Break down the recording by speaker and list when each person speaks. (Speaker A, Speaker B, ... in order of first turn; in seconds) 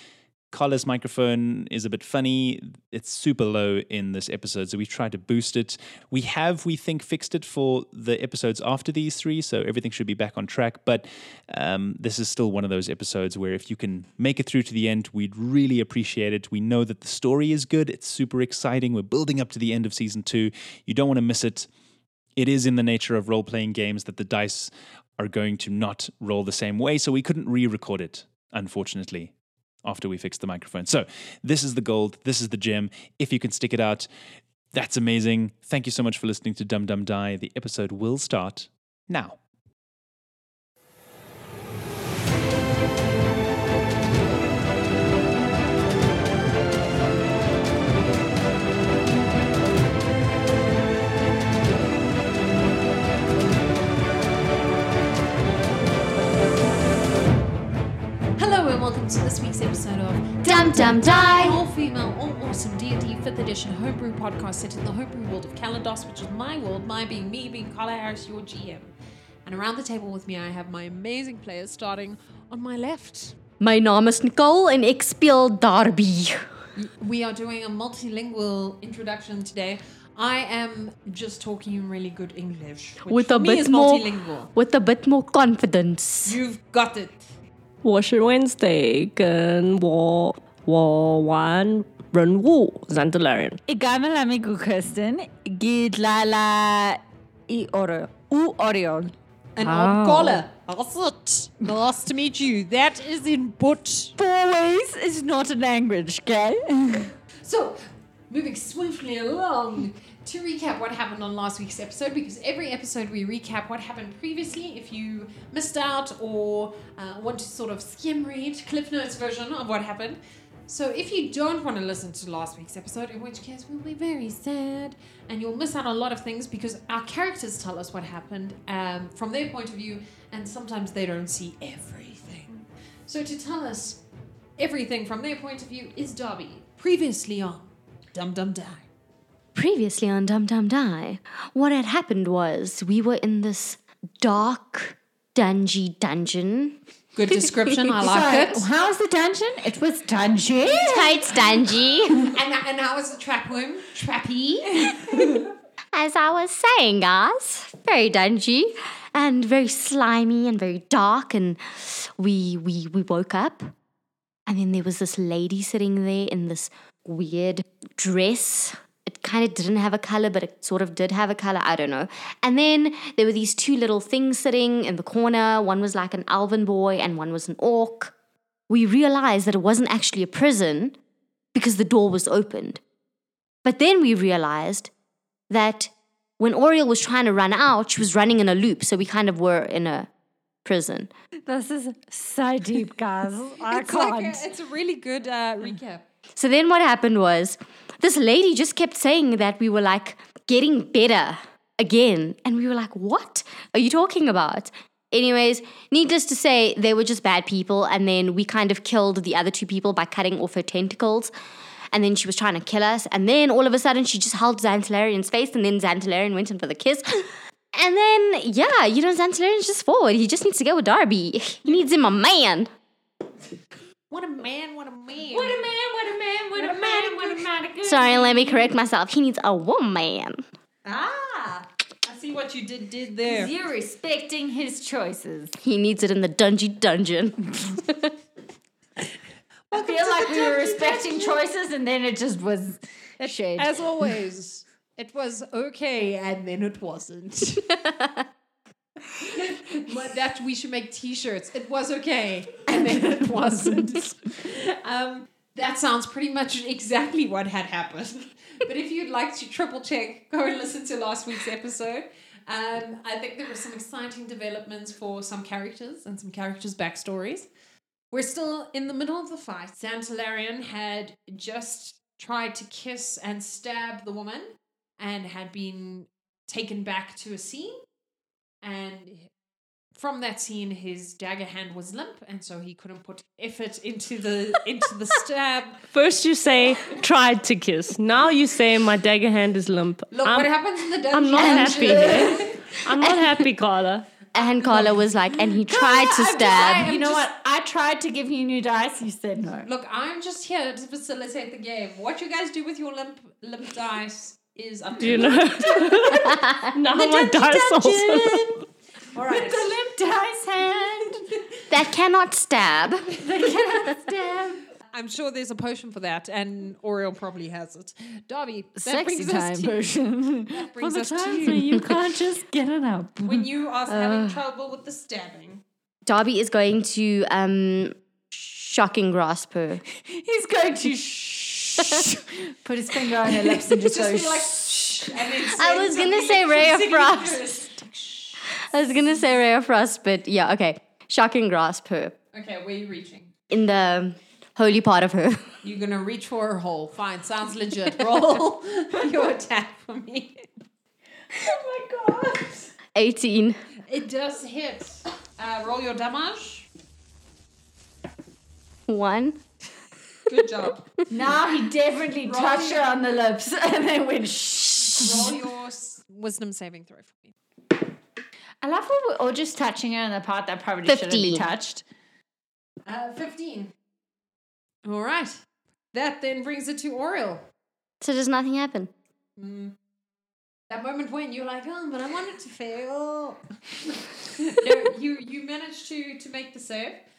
Speaker A: 0.5-21.7, 22.4-34.1, 34.7-39.4
Speaker B: 58.4-68.9, 69.5-73.4, 76.8-84.5, 86.2-87.3, 99.6-104.1, 107.4-134.0, 134.6-138.8, 147.2-148.7, 152.3-155.0, 193.6-196.1, 224.1-225.7, 226.5-227.9, 230.8-233.5, 239.7-241.4, 243.2-247.8, 249.2-267.5, 268.1-277.8, 278.6-279.3, 279.9-285.8, 290.1-292.6, 294.4-295.1, 296.4-297.3, 299.6-306.4, 309.1-309.7, 314.9-319.9, 320.5-321.7, 323.3-325.6, 333.2-338.6, 342.3-343.3, 345.6-350.5, 353.9-356.7, 360.3-360.9, 362.2-362.9, 364.9-367.3, 372.9-373.7, 374.9-375.4, 375.9-377.4, 379.4-379.8, 380.7-387.0
Speaker C: 60.4-61.6, 73.6-76.6, 83.0-86.4, 139.6-147.8, 150.7-152.3, 155.9-163.7, 164.5-178.1, 178.7-181.0, 181.5-182.8, 183.6-184.9, 185.5-190.1, 190.7-191.1, 196.4-211.3, 211.9-222.7, 227.8-230.4, 235.6-238.1, 247.8-248.2, 291.2-293.4, 294.4-296.9, 306.3-306.7, 311.7-313.1, 323.9-324.4, 326.1-329.8, 335.4-337.4, 338.5-342.1, 343.5-345.6, 352.9-353.6, 358.9-359.4, 370.9-371.5, 378.0-378.9
Speaker D: 87.8-93.6, 99.6-100.4, 285.9-290.5, 291.1-294.1, 305.0-308.5
Speaker E: 93.7-99.1, 104.2-107.1, 147.9-151.4, 154.8-155.4, 191.4-194.4, 225.3-228.7, 233.3-235.5, 239.7-243.8, 252.7-253.1, 292.1-292.5, 295.6-299.7, 305.7-306.1, 306.9-308.6, 309.2-311.3, 313.2-314.6, 318.8-323.5, 330.0-335.0, 351.3-352.7, 361.1-365.3, 368.6-371.8